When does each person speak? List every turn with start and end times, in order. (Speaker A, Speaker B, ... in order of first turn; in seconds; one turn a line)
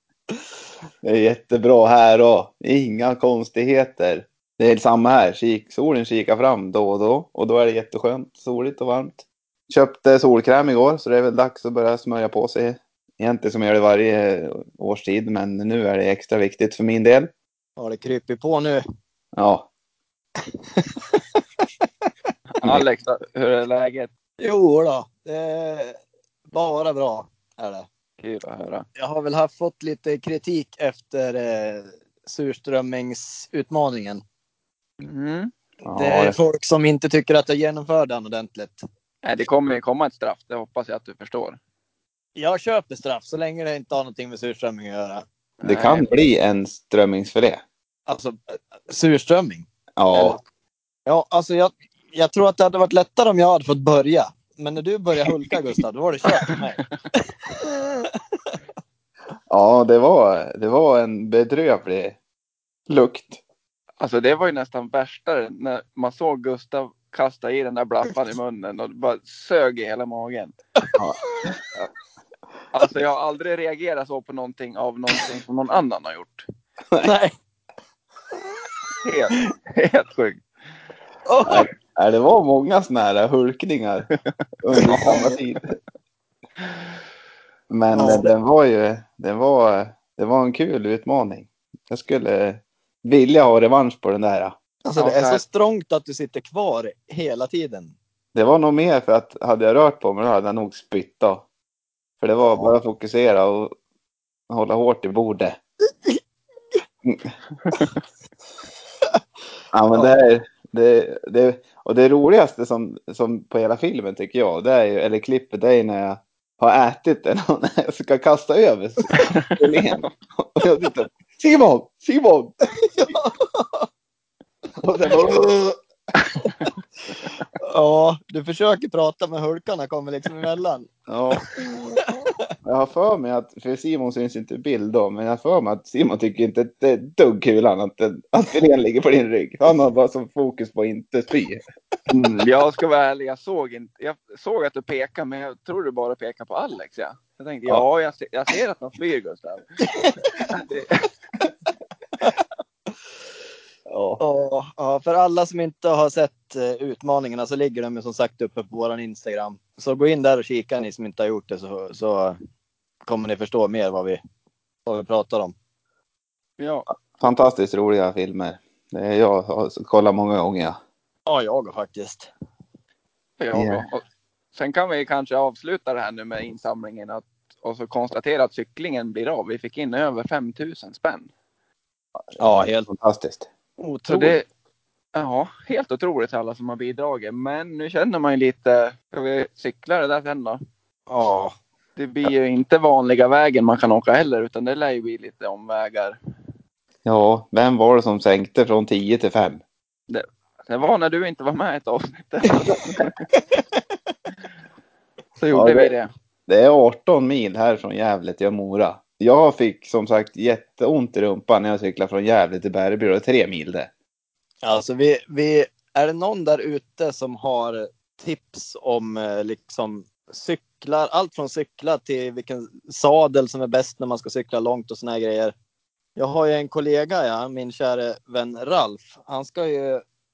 Speaker A: 1.0-17.3
Speaker B: 17.8-18.8
Speaker A: 19.3-19.7
Speaker C: 22.6-24.1
Speaker B: 24.4-25.9
Speaker B: 26.5-27.9
Speaker C: 28.2-28.9
Speaker B: 28.9-34.2
Speaker C: 35.0-35.5
Speaker A: 35.8-36.4
Speaker B: 35.9-38.8
Speaker C: 39.2-41.6
Speaker B: 42.4-45.2
Speaker C: 45.6-46.2
Speaker A: 45.6-47.6
Speaker B: 48.1-50.4
Speaker A: 50.0-50.4
Speaker B: 51.0-58.5
Speaker A: 59.5-62.2
Speaker A: 62.9-63.4
Speaker C: 64.0-70.5
Speaker C: 72.7-76.4
Speaker B: 77.0-77.3
Speaker C: 79.0-80.4
Speaker B: 81.2-81.7
Speaker A: 81.4-84.1
Speaker A: 84.6-85.7
Speaker B: 84.8-85.0
Speaker C: 84.8-85.3
Speaker A: 87.7-94.5
Speaker B: 87.9-88.3
Speaker B: 94.8-97.9
Speaker C: 95.0-95.4
Speaker A: 98.3-101.4
Speaker A: 102.2-103.7
Speaker A: 104.5-105.6
Speaker A: 109.7-122.5
Speaker B: 122.8-123.9
Speaker A: 124.8-125.8
Speaker B: 127.6-130.9
Speaker A: 131.1-131.4
Speaker B: 131.7-132.3
Speaker A: 132.6-141.6
Speaker C: 142.1-149.6
Speaker B: 149.8-150.5
Speaker C: 150.5-151.0
Speaker A: 153.9-154.2
Speaker B: 154.2-162.4
Speaker B: 163.1-164.2
Speaker B: 164.8-165.5
Speaker C: 166.6-166.9
Speaker A: 167.2-170.8
Speaker B: 171.3-172.3
Speaker C: 173.4-174.0
Speaker A: 173.5-173.8
Speaker C: 174.5-181.3
Speaker A: 182.3-183.5
Speaker B: 182.4-182.9
Speaker B: 183.8-184.4
Speaker C: 184.1-184.4
Speaker C: 185.1-190.6
Speaker B: 191.1-191.5
Speaker C: 191.9-196.2
Speaker A: 197.0-199.6
Speaker C: 200.1-203.2
Speaker C: 205.4-206.1
Speaker A: 205.5-205.9
Speaker A: 206.5-213.9
Speaker B: 214.6-225.5
Speaker B: 226.2-230.0